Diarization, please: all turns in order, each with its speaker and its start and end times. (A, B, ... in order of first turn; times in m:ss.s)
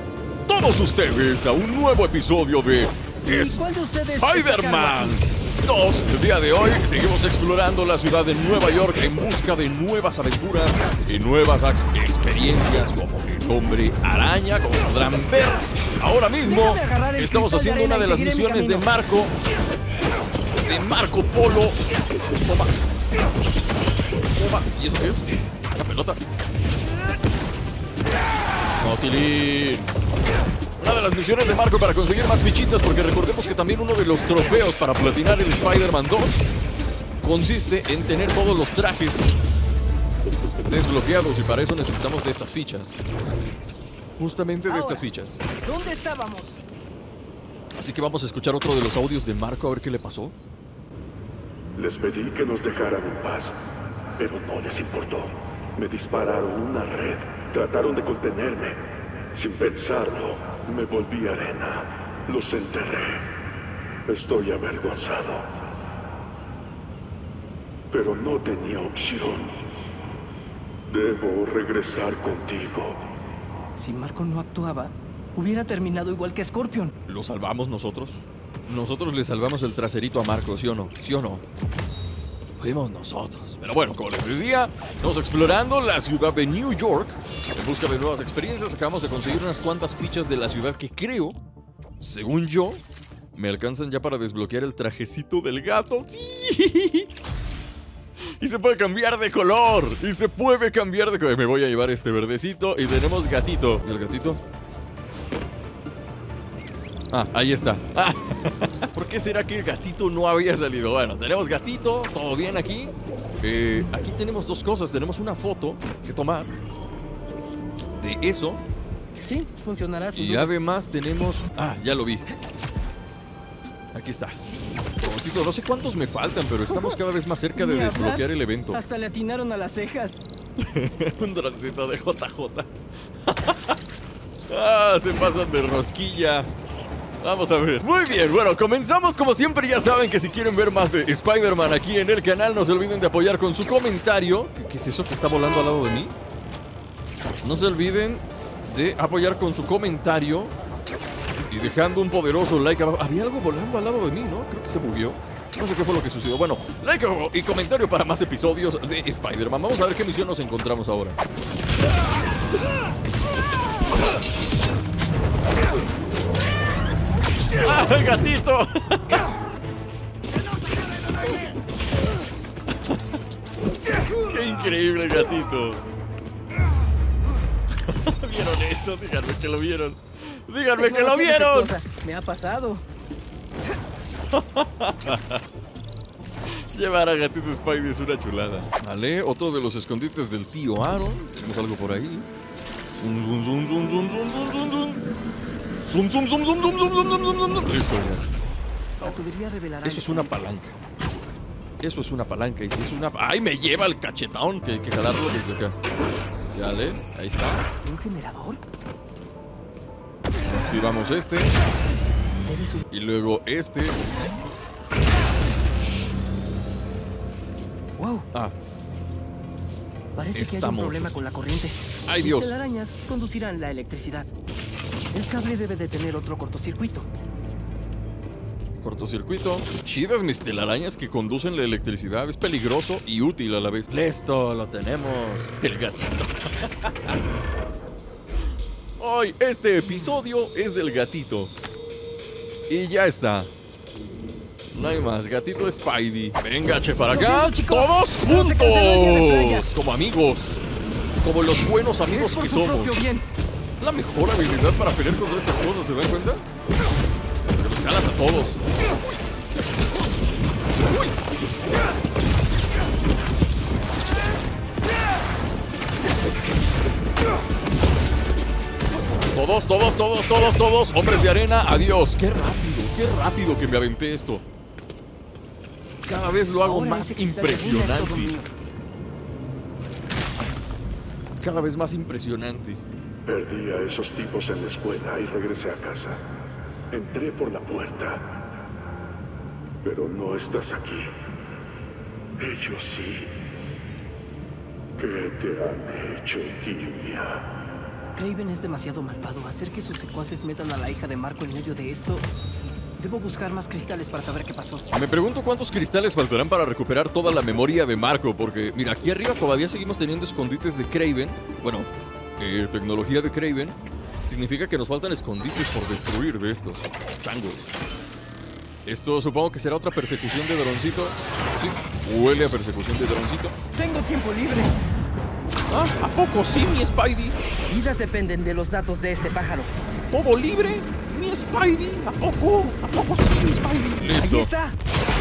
0:00.5-0:03.6 A
0:03.2-0:05.2 B
0:04.2-0:19.3 A
0:16.4-0:18.9 B
0:20.6-0:21.8 A
0:22.3-0:22.8 A
0:24.3-0:26.2 A
0:28.8-0:29.9 A
0:30.8-0:36.4 A
0:37.2-0:39.3 A
0:40.6-0:43.0 A
0:44.2-0:45.4 A
0:44.7-0:45.0 B
0:45.6-0:46.6 B
0:47.8-0:50.3 A
0:51.7-0:53.6 C
0:54.2-0:58.8 C
0:59.3-1:03.2 C
1:04.0-1:05.4 C
1:07.9-1:09.6 C
1:10.9-1:13.0 C
1:13.8-1:16.9 B
1:17.1-1:21.4 A
1:22.6-1:31.4 A
1:32.0-1:32.8 A
1:33.3-1:37.1 A
1:38.4-1:44.4 A
1:47.1-1:56.5 A
1:57.9-1:58.6 A
1:59.2-2:00.5 B
2:00.2-2:02.2 A
2:03.9-2:04.4 A
2:05.0-2:08.8 A
2:06.7-2:07.0 B
2:07.6-2:10.2 B
2:10.6-2:12.7 A
2:13.3-2:13.8 A
2:14.5-2:16.5 A
2:17.2-2:26.2 A
2:27.4-2:30.5 A
2:31.5-2:41.2 A
2:47.6-2:49.3 A
2:54.2-2:55.8 A
2:57.9-3:01.7 A
3:00.7-3:02.8 B
3:04.3-3:05.4 A
3:06.7-3:12.3 A
3:13.0-3:15.0 A
3:15.8-3:18.3 A
3:19.0-3:20.4 B
3:19.8-3:20.8 A
3:21.8-3:25.7 A
3:26.5-3:27.7 A
3:27.8-3:28.6 B
3:30.4-3:31.5 A
3:32.5-3:32.8 B
3:32.9-3:34.1 A
3:38.0-3:38.3 B
3:40.2-3:44.3 B
3:40.3-3:41.2 A
3:42.1-3:42.6 A
3:45.1-3:47.1 B
3:48.8-3:56.9 A
3:59.0-4:01.5 A
4:02.7-4:03.5 A
4:04.7-4:10.6 A
4:07.1-4:09.7 B
4:11.2-4:13.0 A
4:12.1-4:13.3 B
4:13.8-4:16.4 A
4:17.5-4:18.6 A
4:29.3-4:34.4 A
4:36.0-4:38.4 A
4:36.6-4:38.5 B
4:41.4-4:42.8 A
4:43.2-4:46.2 C
4:46.9-4:48.3 C
4:49.8-4:51.1 C
4:52.4-4:53.3 C
4:55.0-4:57.5 C
4:58.1-5:02.3 B
5:03.0-5:04.8 B
5:04.9-5:17.7 A
5:18.8-5:23.5 A
5:23.7-5:24.8 B
5:25.7-5:27.4 A
5:27.7-5:29.8 B
5:30.1-5:34.5 A
5:34.0-5:34.8 B